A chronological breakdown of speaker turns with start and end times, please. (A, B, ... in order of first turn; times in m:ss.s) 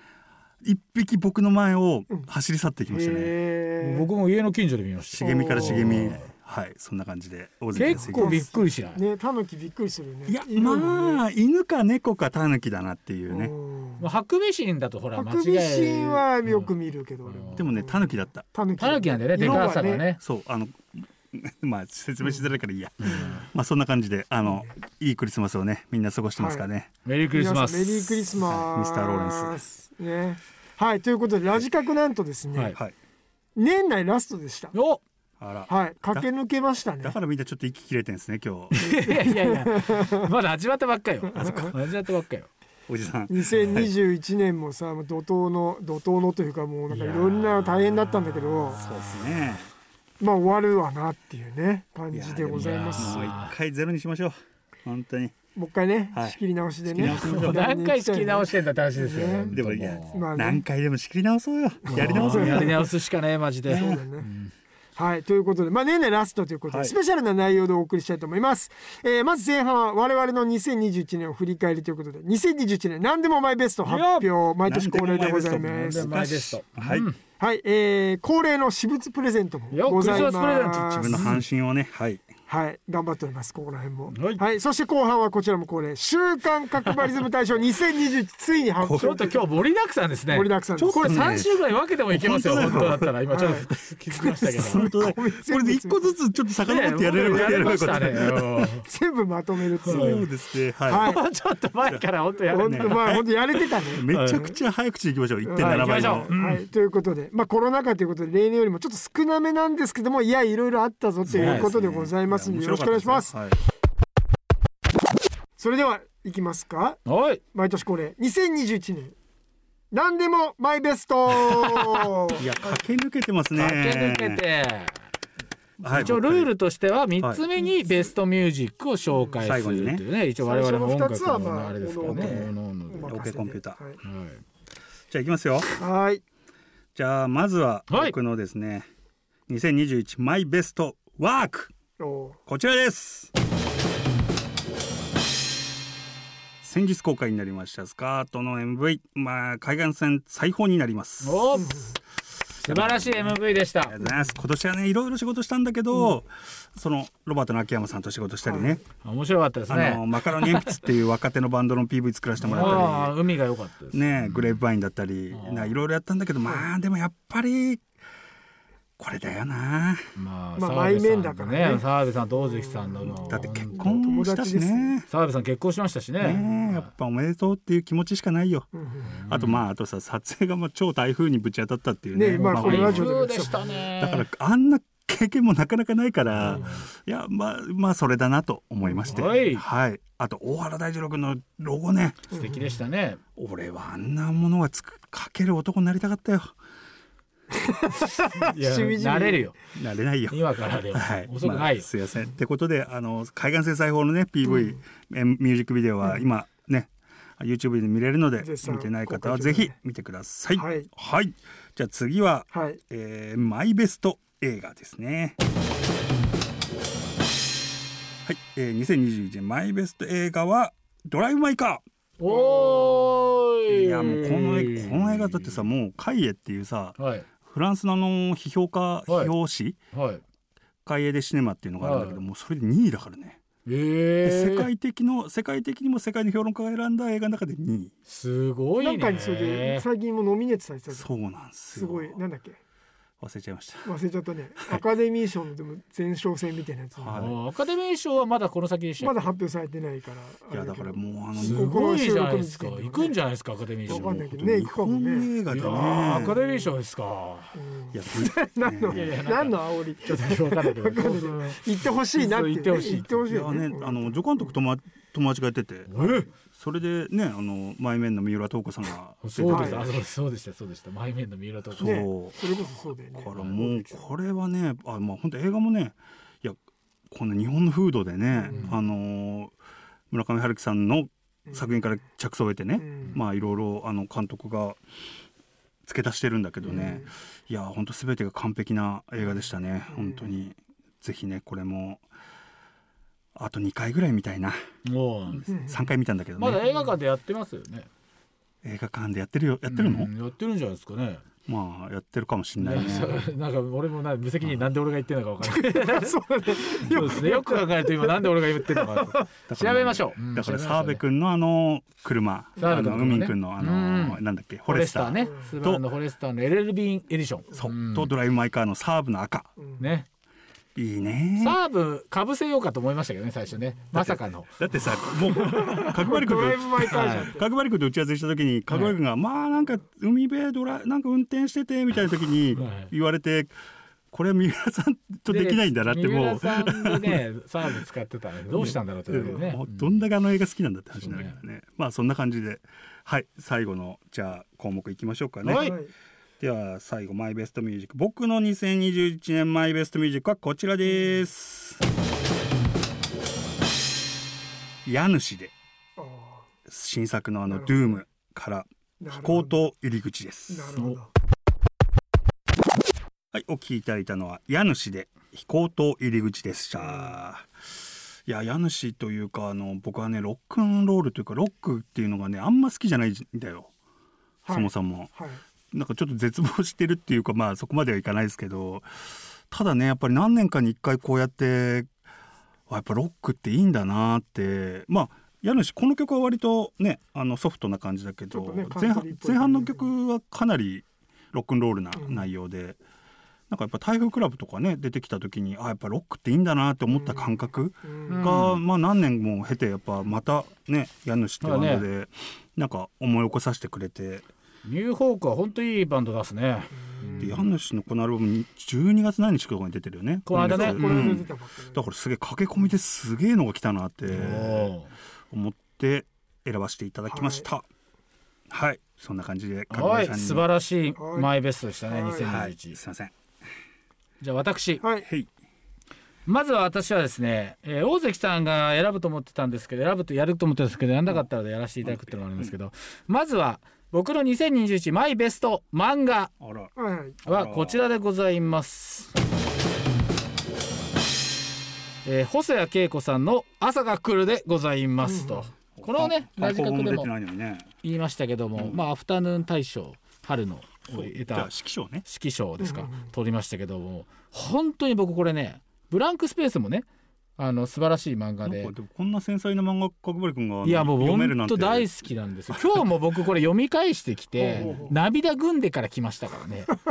0:00.6-0:03.3 A
0:02.9-0:04.1 B
0:03.8-0:06.3 C
0:05.2-0:08.4 A
0:05.2-0:06.2 B
0:07.7-0:09.0 C
0:07.8-0:11.2 B
0:10.3-0:13.5 A
0:13.3-0:14.0 B
0:14.0-0:16.7 C
0:15.1-0:20.0 B
0:17.3-0:17.6 C
0:17.5-0:18.4 A
0:18.8-0:20.2 C
0:20.2-0:26.9 A
0:23.0-0:23.4 C
0:23.0-0:23.4 B
0:24.4-0:24.7 B
0:26.4-0:26.6 B
0:27.0-0:28.3 C
0:27.3-0:32.8 B
0:28.5-0:29.6 A
0:33.6-0:34.7 B
0:34.7-0:35.0 C
0:35.4-0:36.3 A
0:35.7-0:37.2 B
0:37.0-0:38.8 A
0:38.7-0:42.5 C
0:38.8-0:40.3 B
0:41.3-0:41.7 B
0:42.9-0:43.9 A
0:43.3-0:48.8 B
0:46.9-0:49.5 C
0:48.7-0:49.7 A
0:50.2-0:53.3 B
0:52.1-0:55.3 A
0:52.5-0:53.5 C
0:55.5-0:59.6 B
0:56.1-0:57.6 A
0:57.0-1:00.2 C
0:59.5-1:02.8 A
1:00.1-1:00.6 B
1:01.8-1:02.9 B
1:01.9-1:04.5 C
1:03.7-1:04.0 A
1:03.8-1:04.3 B
1:05.0-1:16.1 B
1:06.7-1:06.9 A
1:13.8-1:14.3 C
1:14.6-1:17.1 A
1:15.6-1:17.2 C
1:17.4-1:21.4 B
1:19.7-1:21.4 C
1:21.0-1:22.2 A
1:22.5-1:29.5 B
1:24.1-1:24.4 C
1:28.8-1:29.2 A
1:29.0-1:34.9 C
1:30.3-1:31.2 B
1:30.8-1:31.6 A
1:32.1-1:33.1 A
1:32.6-1:36.1 B
1:34.4-1:38.4 A
1:36.6-1:38.8 C
1:37.2-1:40.3 B
1:39.8-1:40.2 C
1:39.9-1:41.1 A
1:40.9-1:41.2 B
1:40.9-1:43.2 C
1:42.5-1:44.6 B
1:42.6-1:46.3 A
1:44.1-1:44.4 C
1:45.4-1:53.3 B
1:45.6-1:46.6 C
1:51.3-1:53.6 A
1:51.3-1:51.7 C
1:55.6-1:57.0 B
1:57.0-1:57.4 C
1:57.5-1:59.1 B
1:59.9-2:02.4 B
2:01.4-2:02.1 C
2:02.4-2:04.4 A
2:03.5-2:05.0 C
2:05.8-2:06.5 A
2:05.9-2:13.1 C
2:07.6-2:08.1 B
2:09.4-2:10.0 A
2:10.4-2:14.0 B
2:12.1-2:12.5 A
2:13.1-2:13.8 A
2:14.0-2:14.4 C
2:15.1-2:15.7 A
2:15.8-2:16.2 B
2:16.9-2:18.9 A
2:17.9-2:18.1 C
2:19.5-2:21.7 A
2:22.0-2:22.4 B
2:22.5-2:23.3 A
2:26.6-2:31.4 A
2:31.2-2:31.8 C
2:31.5-2:32.0 B
2:32.6-2:34.0 C
2:32.6-2:38.8 A
2:38.4-2:38.8 B
2:39.0-2:40.6 C
2:39.7-2:43.1 A
2:42.4-2:44.4 C
2:42.5-2:42.9 B
2:43.9-2:47.8 A
2:45.3-2:45.8 C
2:49.0-2:50.1 A
2:50.1-2:54.0 C
2:50.6-2:54.9 B
2:53.3-2:55.1 A
2:55.1-2:56.8 C
2:56.2-2:58.7 A
2:58.7-2:59.2 B
2:59.2-2:59.6 C
2:59.3-3:03.1 A
3:02.1-3:03.8 B
3:02.5-3:04.2 C
3:04.0-3:12.3 A
3:06.4-3:06.9 C
3:06.4-3:06.7 B
3:08.8-3:09.3 B
3:09.1-3:09.6 C
3:12.3-3:12.8 B
3:12.3-3:13.2 C
3:13.4-3:16.5 A
3:17.5-3:19.4 B
3:18.0-3:19.5 C
3:19.8-3:35.4 A
3:20.3-3:21.9 C
3:24.4-3:24.8 B
3:28.4-3:29.7 B
3:30.6-3:30.9 B
3:32.5-3:32.8 B
3:38.2-3:41.8 A
3:42.2-3:45.6 C
3:42.3-3:43.1 B
3:43.7-3:49.8 A
3:47.0-3:47.2 C
3:49.9-3:50.2 C
3:50.8-3:53.4 A
3:51.8-3:52.2 C
3:53.6-3:54.7 C
3:54.2-3:57.9 A
3:58.1-3:59.8 C
3:58.8-4:01.1 B
4:00.9-4:02.2 A
4:01.7-4:02.6 B
4:03.2-4:03.9 A
4:03.8-4:07.2 B
4:07.0-4:07.4 A
4:07.1-4:09.3 C
4:09.0-4:13.1 B
4:10.5-4:11.8 A
4:11.4-4:14.2 C
4:13.9-4:16.4 A
4:13.9-4:16.7 B
4:15.5-4:17.6 C
4:17.5-4:24.5 B
4:17.9-4:19.2 A
4:18.9-4:23.2 C
4:23.2-4:30.0 A
4:25.9-4:26.3 C
4:29.2-4:32.0 C
4:29.5-4:29.9 B
4:31.7-4:32.4 A
4:31.8-4:34.1 B
4:33.1-4:39.5 A
4:38.3-4:38.7 B
4:38.5-4:38.8 C
4:40.1-4:44.8 A
4:41.5-4:41.8 B
4:42.8-4:43.2 B
4:45.8-4:52.0 A
4:46.6-4:47.1 B
4:49.9-4:50.3 B
4:53.3-4:54.6 A
4:54.8-4:55.4 C
4:55.3-4:56.6 A
4:55.5-4:55.9 B
4:56.4-4:57.9 C
4:58.6-5:00.1 A
4:59.7-5:01.2 C
5:01.5-5:03.2 A
5:02.6-5:11.0 C
5:05.4-5:09.2 B
5:06.9-5:07.1 A
5:09.5-5:15.8 A
5:12.6-5:18.1 C
5:15.2-5:15.5 B
5:17.5-5:19.5 A
5:19.6-5:19.8 B
5:19.8-5:20.0 C
5:20.7-5:21.6 A
5:21.4-5:24.6 C
5:23.9-5:33.5 A
5:25.4-5:27.5 B
5:26.9-5:27.3 C
5:28.7-5:28.9 C
5:32.6-5:32.9 C
5:34.1-5:37.2 A
5:35.3-5:40.0 C
5:38.5-5:45.8 A
5:39.2-5:39.5 B
5:41.0-5:41.3 C
5:45.4-5:45.8 C
5:45.5-5:45.9 B
5:46.4-5:51.8 A
5:54.8-5:55.5 A
5:56.0-5:56.5 B
5:56.7-6:00.7 A
5:57.5-5:57.8 B
5:59.0-5:59.6 B
6:00.5-6:01.1 B
6:03.3-6:07.5 A
6:06.8-6:07.1 B
6:08.2-6:13.7 A
6:14.4-6:15.4 B
6:14.5-6:15.1 A
6:15.7-6:21.9 A
6:22.7-6:32.8 A
6:28.3-6:29.9 B
6:32.0-6:32.2 B
6:33.5-6:44.3 A
6:36.9-6:38.4 B
6:38.1-6:38.6 C
6:41.4-6:41.8 C
6:44.6-6:47.4 C
6:46.8-6:47.4 B
6:47.2-6:54.7 A
6:50.2-6:51.2 C
6:50.3-6:51.8 B
6:54.1-6:54.9 C
6:55.3-6:57.7 A
6:57.1-6:57.5 B
6:58.5-7:00.4 A
6:59.7-7:02.8 C
7:01.0-7:01.3 B
7:01.9-7:02.4 B
7:02.2-7:03.1 A
7:04.2-7:04.8 C
7:04.8-7:05.1 B
7:05.0-7:05.3 A
7:06.2-7:16.3 C
7:11.8-7:12.5 A
7:16.4-7:16.7 A
7:16.8-7:17.2 B
7:17.2-7:17.8 A
7:17.2-7:19.1 C
7:22.0-7:27.1 C
7:25.0-7:25.5 B
7:25.8-7:27.7 A
7:27.8-7:31.5 C
7:30.9-7:32.0 A
7:32.0-7:36.8 C
7:32.6-7:33.0 B
7:37.4-7:38.7 C
7:38.4-7:41.9 A
7:40.6-7:46.7 C
7:42.5-7:42.8 A
7:44.4-7:44.9 B
7:44.5-7:45.0 A